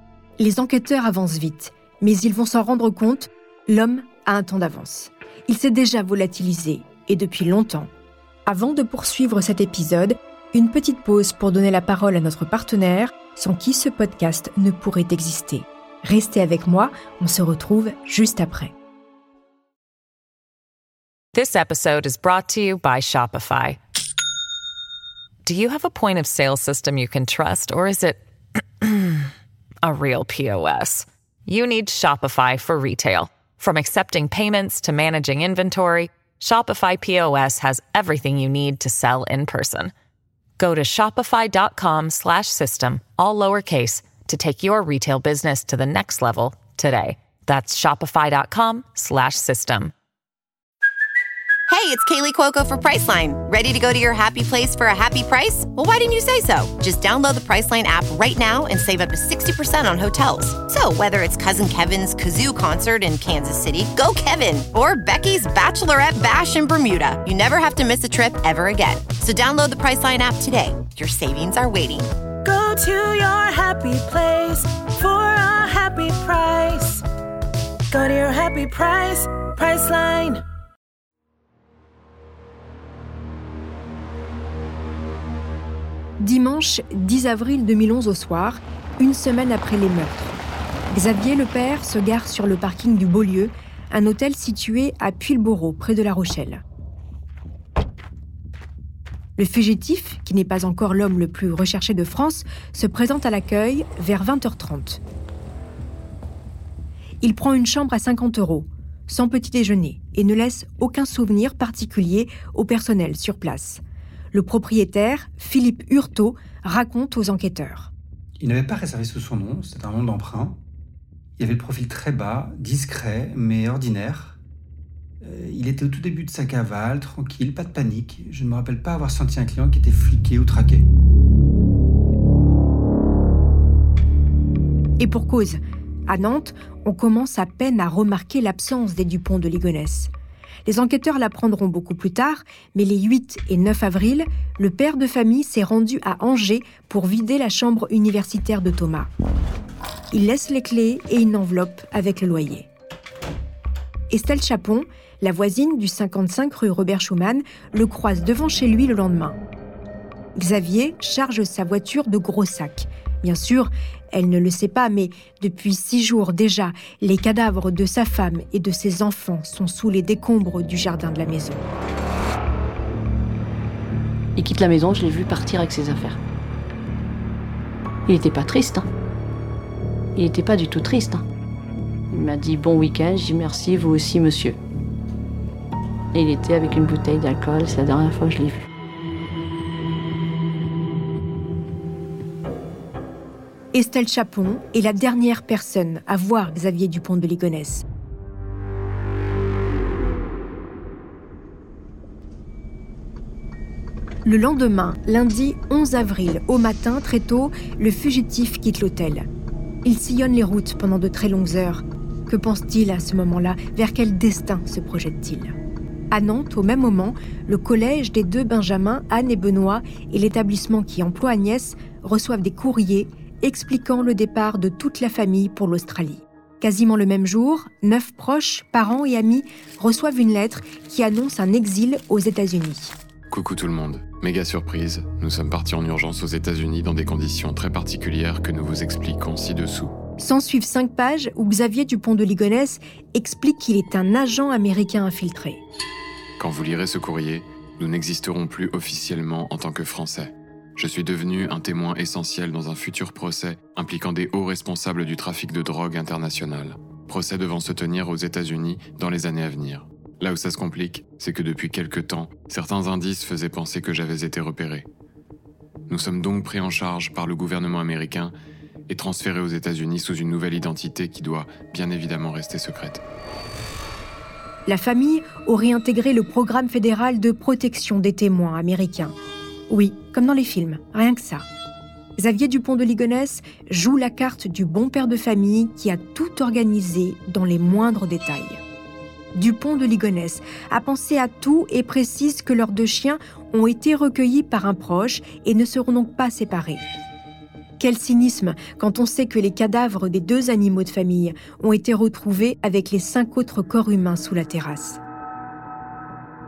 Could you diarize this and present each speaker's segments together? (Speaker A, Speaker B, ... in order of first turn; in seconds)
Speaker A: 0.4-7.9, 8.4-18.7, 86.2-90.4, 90.9-96.6, 99.4-105.0, 107.2-113.8, 114.3-117.9, 135.0-140.1, 140.7-149.1, 150.1-152.7, 154.1-159.4, 160.3-171.7, 193.7-197.8, 204.2-209.3, 209.8-215.5, 216.1-232.9, 240.2-245.6, 274.6-279.1, 279.7-281.4, 282.2-288.6, 289.3-296.8, 297.8-305.0
Speaker B: 21.3-23.8, 25.4-28.2, 28.8-29.3, 29.8-39.9, 40.6-49.9
Speaker C: 51.7-72.1
Speaker D: 72.4-77.0, 77.9-80.4
Speaker E: 118.4-120.6, 121.4-124.4, 125.2-130.9
Speaker F: 174.3-176.2, 178.1-178.8, 180.1-181.2, 182.1-184.6, 186.1-188.6
Speaker G: 233.3-239.9, 246.4-264.9, 265.9-268.3, 268.9-273.0